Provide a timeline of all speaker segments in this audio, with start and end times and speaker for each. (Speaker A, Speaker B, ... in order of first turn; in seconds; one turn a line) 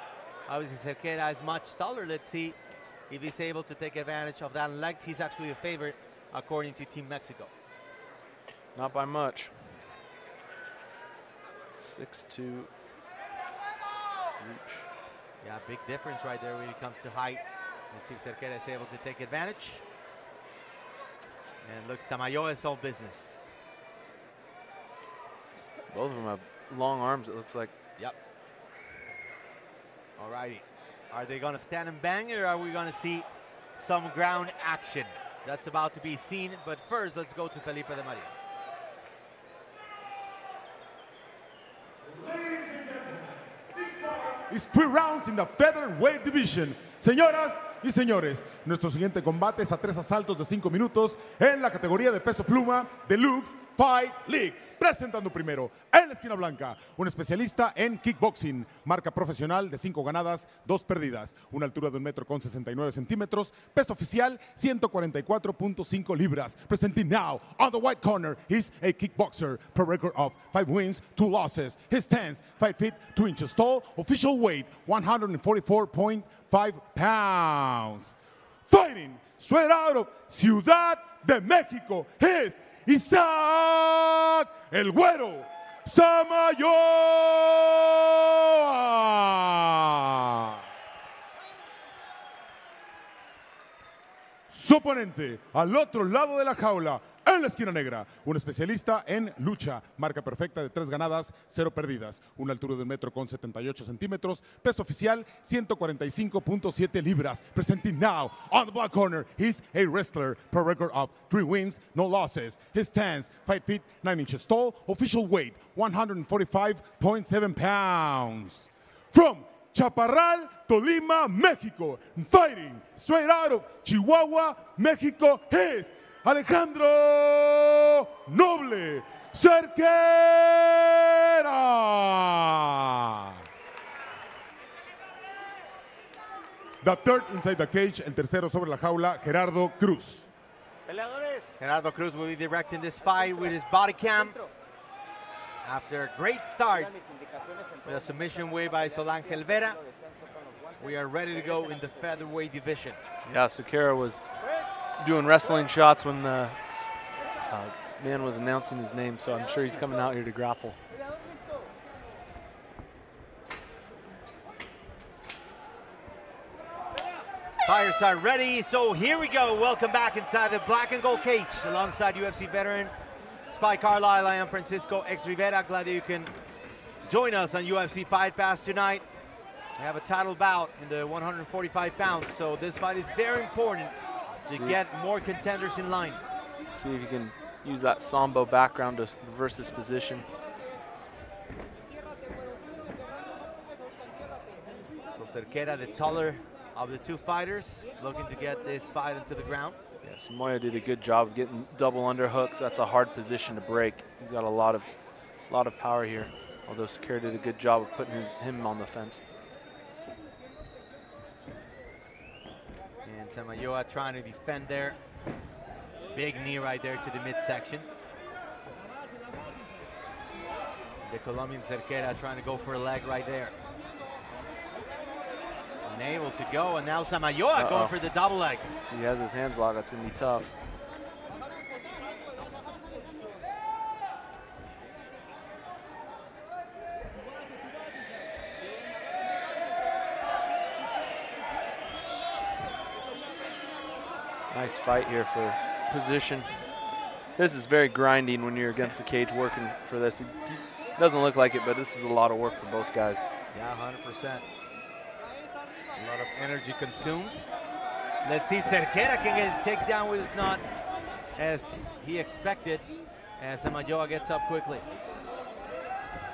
Speaker A: 0.5-2.6
Speaker A: 3.1-7.5
Speaker B: 8.8-9.5
Speaker B: 11.8-12.7
Speaker B: 14.4-14.9
Speaker A: 15.4-19.8
Speaker A: 21.6-23.5
Speaker B: 25.9-27.7
Speaker A: 30.2-38.3
Speaker C: 42.0-78.2
Speaker C: 78.7-90.6
Speaker C: 94.5-133.4
Speaker C: 136.8-140.3
Speaker A: 141.6-144.4
Speaker A: 145.6-146.9
Speaker A: 147.8-149.8
Speaker A: 150.8-153.0
Speaker B: 153.3-154.2
Speaker B: 155.0-156.6
Speaker B: 157.5-160.8
Speaker A: 167.7-172.9
Speaker A: 173.5-176.3
Speaker A: 177.1-179.1
Speaker A: 179.8-183.9
Speaker B: 184.5-184.8
Speaker A: 184.5-186.2
Speaker B: 186.7-190.3
Speaker A: 195.1-199.8
Speaker B: 200.0-204.9
Speaker B: 205.5-209.2
Speaker A: 213.1-215.0
Speaker A: 216.1-217.9
Speaker A: 221.0-223.6
Speaker A: 225.8-228.7
Speaker B: 227.6-227.9
Speaker B: 228.9-230.5
Speaker B: 244.5-246.6
Speaker B: 247.4-253.2
Speaker A: 253.5-254.4
Speaker A: 256.0-257.4
Speaker A: 258.2-260.6
Speaker A: 261.4-262.9
Speaker A: 263.4-264.9